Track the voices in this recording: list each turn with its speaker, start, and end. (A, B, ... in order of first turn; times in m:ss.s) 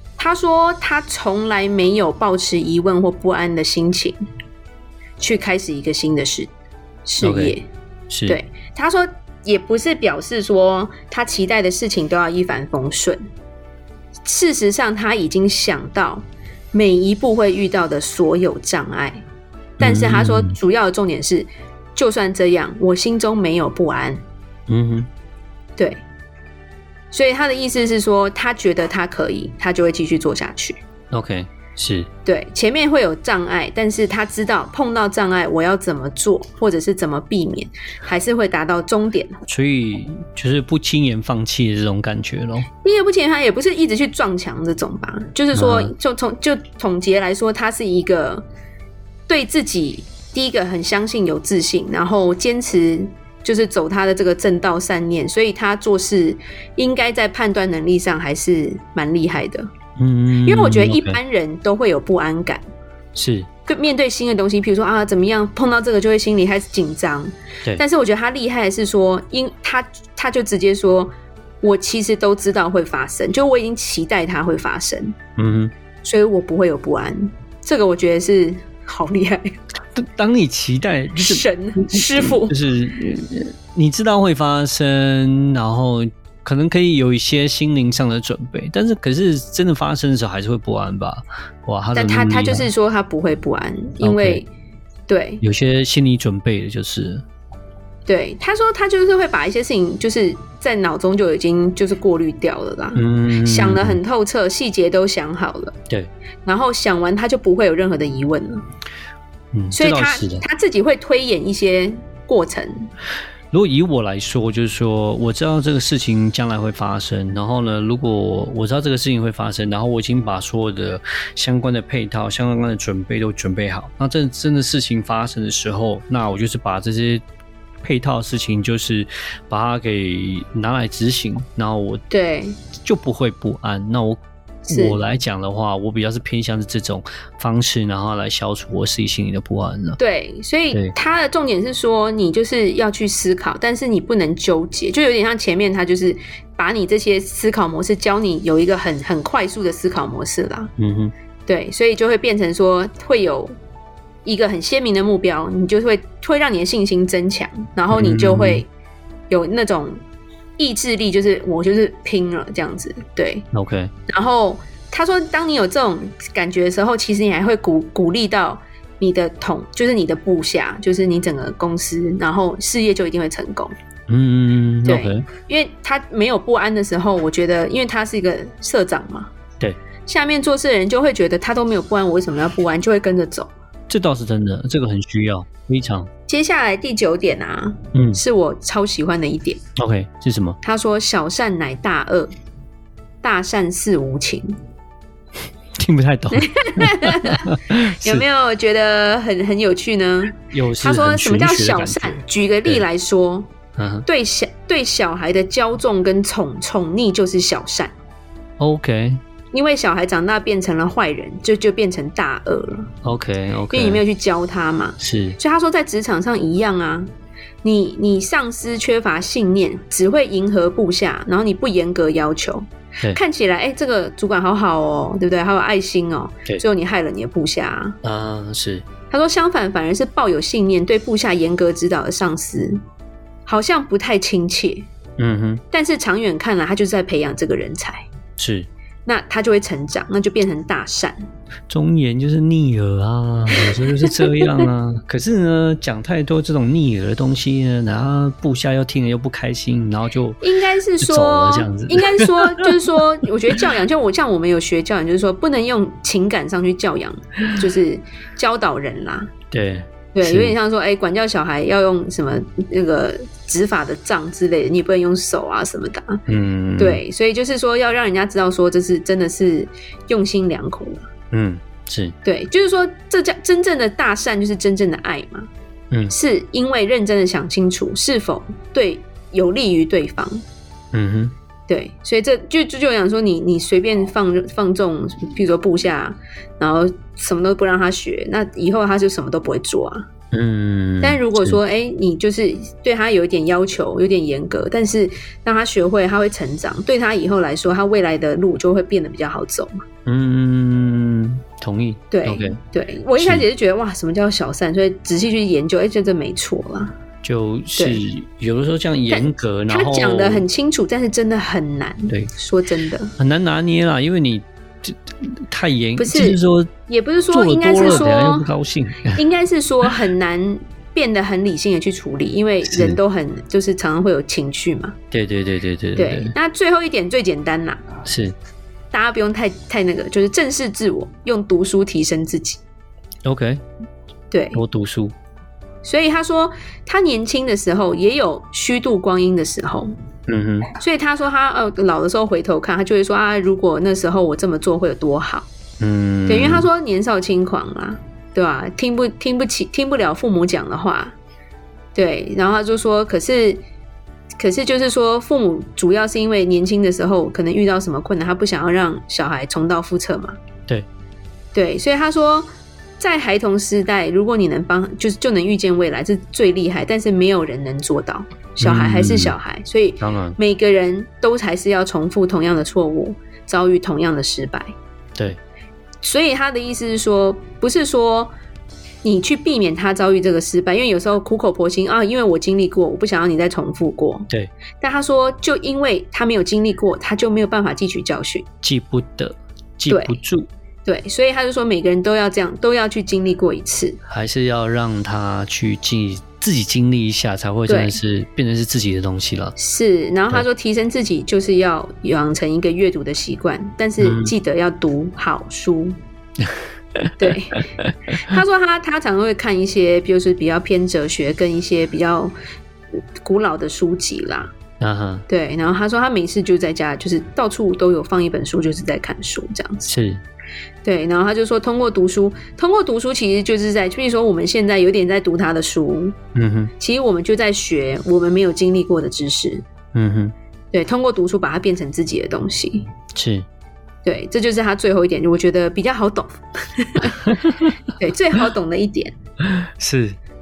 0:00.2-0:04.2 A
0:05.2-0:06.5 A
0:07.1-0:07.7 A
0:07.2-0:07.6 B
0:08.1-0:08.4 B
0:08.3-0:13.2 A
0:14.3-0:19.2 A
0:19.8-0:20.6 B
0:19.8-0:24.2 A
0:24.7-0:25.1 B
0:25.8-0:26.0 A
0:27.1-0:30.8 A
0:31.1-0:32.1 B
0:32.2-0:39.4 A
0:39.5-0:42.7 B
0:42.8-0:48.4 A
0:45.5-0:45.9 B
0:49.3-0:59.7 A
1:00.0-1:01.2 B
1:00.4-1:02.6 A
1:03.2-1:03.5 B
1:03.7-1:15.2 A
1:15.4-1:15.7 B
1:16.0-1:19.5 A
1:20.0-1:32.7 B
1:21.2-1:22.6 A
1:31.9-1:34.5 A
1:34.0-1:34.4 B
1:35.1-1:35.4 A
1:35.4-1:37.2 B
1:38.1-1:45.8 A
1:43.0-1:44.0 B
1:46.4-1:48.6 A
1:49.5-1:50.4 B
1:49.7-1:52.9 A
1:53.5-2:07.2 B
2:07.8-2:12.0 B
2:12.1-2:12.6 A
2:12.8-2:20.0 B
2:14.7-2:15.0 A
2:20.0-2:30.7 A
2:30.8-2:31.1 B
2:31.5-2:33.6 A
2:34.2-2:38.7 A
2:37.9-2:38.6 B
2:39.3-2:40.0 A
2:40.6-2:43.5 A
2:43.5-2:43.9 B
2:44.1-2:53.7 A
2:54.1-2:55.2 B
2:54.8-2:59.3 A
3:00.1-3:03.5 A
3:03.9-3:06.1 B
3:06.3-3:09.6 A
3:07.9-3:08.2 B
3:09.8-3:10.6 B
3:10.6-3:12.3 A
3:13.2-3:14.6 A
3:15.8-3:18.2 B
3:16.3-3:23.5 A
3:20.4-3:22.8 B
3:23.8-3:24.1 B
3:24.1-3:27.9 A
3:28.6-3:29.2 B
3:29.5-3:32.9 A
3:33.0-3:34.0 B
3:33.7-3:37.1 A
3:35.0-3:35.4 B
3:37.6-3:48.0 A
3:48.0-3:48.8 B
3:49.1-3:52.8 A
3:53.5-3:54.9 A
3:55.2-3:55.6 B
3:55.7-3:58.1 A
3:58.4-3:58.7 B
3:59.1-4:01.2 A
4:01.7-4:10.4 B
4:03.6-4:04.7 A
4:10.4-4:19.3 A
4:11.0-4:12.9 B
4:19.5-4:20.6 B
4:20.1-4:26.2 A
4:26.3-4:27.0 B
4:26.8-4:31.1 A
4:31.3-4:32.2 B
4:32.2-4:35.5 A
4:36.1-4:40.4 A
4:40.9-4:41.3 B
4:41.7-4:50.1 A
4:50.3-4:51.6 B
4:51.0-4:59.8 A
5:00.1-5:02.6 B
5:02.1-5:07.0 A
5:03.2-5:03.5 B
5:07.2-5:10.5 B
5:07.8-5:08.0 A
5:09.1-5:13.1 A
5:13.2-5:16.7 B
5:16.0-5:18.5 A
5:17.3-5:19.2 B
5:19.1-5:25.0 A
5:22.6-5:23.0 B
5:25.1-5:26.3 B
5:26.0-5:27.9 A
5:28.0-5:28.4 B
5:28.9-5:32.6 A
5:33.2-5:33.6 B
5:34.3-5:34.6 A
5:34.5-5:35.1 B
5:35.8-5:39.9 A
5:40.3-5:40.7 B
5:40.8-5:45.5 A
5:45.8-5:46.7 B
5:46.3-5:51.2 A
5:52.0-5:53.6 A
5:54.4-6:00.4 A
6:01.5-6:14.7 A
6:08.6-6:09.4 B
6:10.0-6:10.4 B
6:16.0-6:18.3 A
6:19.0-6:24.3 A
6:24.8-6:28.5 A
6:28.6-6:30.5 B
6:29.9-6:30.2 A
6:30.8-6:34.0 A
6:34.1-6:39.5 B
6:37.7-6:38.0 A
6:39.6-6:46.0 A
6:44.0-6:44.3 B
6:47.0-6:47.9 B
6:47.2-6:47.6 A
6:48.2-6:52.3 A
6:53.2-6:54.5 A
6:54.8-6:55.3 B
6:55.3-6:59.9 A
6:59.9-7:00.2 B
7:00.8-7:06.2 A
7:06.4-7:06.7 B
7:06.8-7:09.6 A
7:09.9-7:10.3 B
7:10.7-7:12.9 A
7:13.1-7:13.5 B
7:14.0-7:17.4 A
7:17.2-7:17.8 B
7:17.9-7:19.1 A
7:19.5-7:20.2 B